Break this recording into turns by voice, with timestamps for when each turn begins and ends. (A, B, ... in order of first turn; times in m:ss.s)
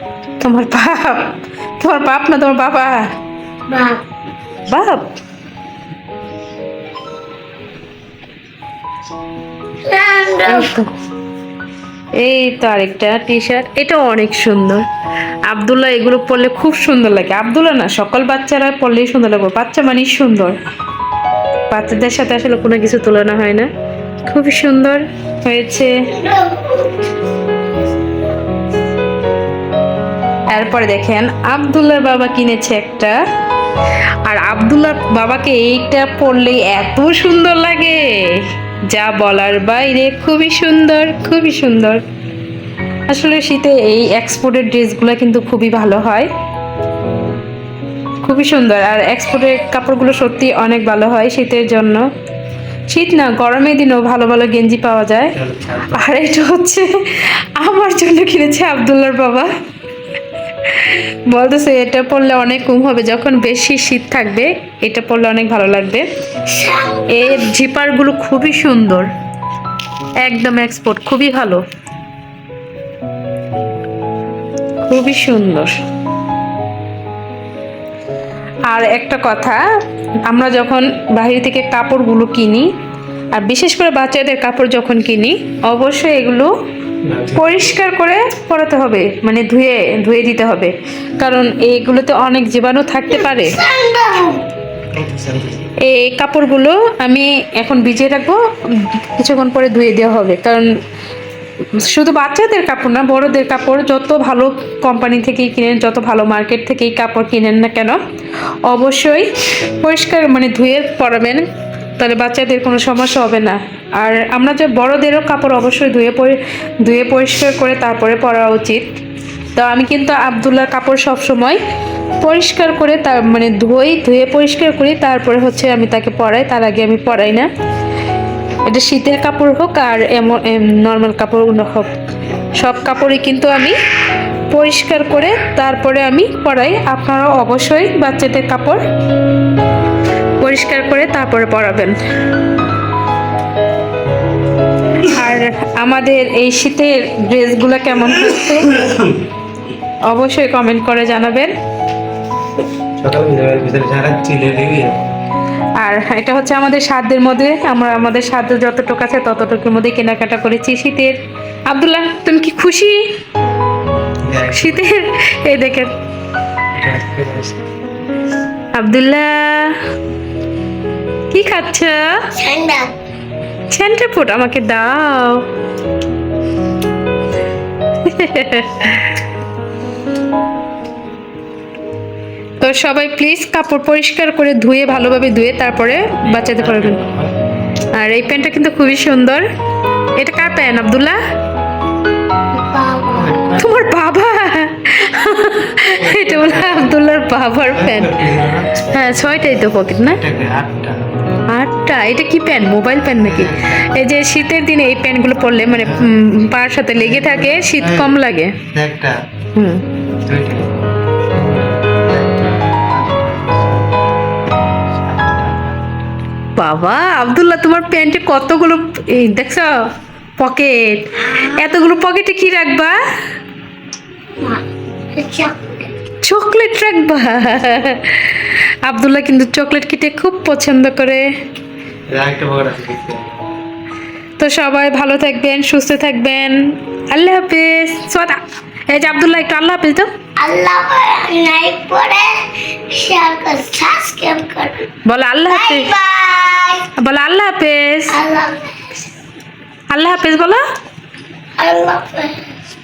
0:00.4-0:03.1 A
0:03.7-0:04.0 B
0:04.7-0:05.1 A
0:09.9-0:10.7 B
0:10.5-0:10.9 A
0:12.2-0:14.8 A
0:15.5-0:20.6 A
0:21.7-0:23.7 A
0:24.2-0:26.0 A
0:26.1-0:27.1 B
0:30.5-0:33.2 A
0:34.2-0:42.0 A
0:43.1-0:46.3 A
0:48.2-0:52.1 A
0:52.9-0:55.4 A
0:55.4-0:56.0 C
0:55.9-0:59.5 A
1:00.6-1:06.1 A
1:06.5-1:07.4 B
1:07.1-1:09.1 A
1:10.2-1:11.6 A
1:14.9-1:15.8 A
1:18.7-1:19.6 A
1:20.3-1:22.7 A
1:23.3-1:26.5 A
1:27.1-1:27.7 C
1:27.3-1:33.6 A
1:33.2-1:34.4 B
1:34.9-1:35.6 C
1:35.8-1:40.7 A
1:41.8-1:48.0 A
1:48.7-1:51.4 A
1:52.0-1:58.8 A
1:59.6-2:01.6 A
2:02.2-2:07.5 A
2:08.6-2:11.9 A
2:12.6-2:13.8 A
2:14.5-2:18.8 A
2:20.4-2:22.0 A
2:25.0-2:28.8 A
2:30.0-2:31.5 A
2:33.0-2:35.0 C
2:35.8-2:43.0 A
2:44.2-2:44.8 C
2:44.5-2:45.9 A
2:46.8-2:47.6 C
2:48.7-2:49.8 A
2:51.3-2:52.3 A
2:52.4-2:52.9 B
2:53.7-2:55.4 A
2:58.0-2:59.2 A
3:02.6-3:07.0 A
3:06.4-3:07.3 C
3:07.9-3:09.5 A
3:10.2-3:11.2 A
3:12.6-3:13.4 B
3:13.2-3:13.8 C
3:13.6-3:18.2 A
3:16.0-3:16.9 C
3:17.7-3:18.8 C
3:18.8-3:20.2 A
3:20.1-3:21.0 C
3:21.5-3:28.6 A
3:23.2-3:24.0 C
3:25.7-3:26.1 C
3:26.9-3:28.2 C
3:28.7-3:29.2 C
3:29.6-3:29.8 A
3:30.2-3:30.8 C
3:31.3-3:34.0 C
3:35.0-3:36.1 C
3:36.6-3:43.0 A
3:44.4-3:45.9 B
3:46.2-3:51.2 A
3:52.1-3:53.5 C
3:54.4-4:00.1 A
4:00.4-4:04.9 B
4:05.0-4:05.9 A
4:05.5-4:06.9 B
4:07.0-4:08.2 A
4:08.1-4:09.0 B
4:09.9-4:10.6 A
4:11.6-4:12.4 B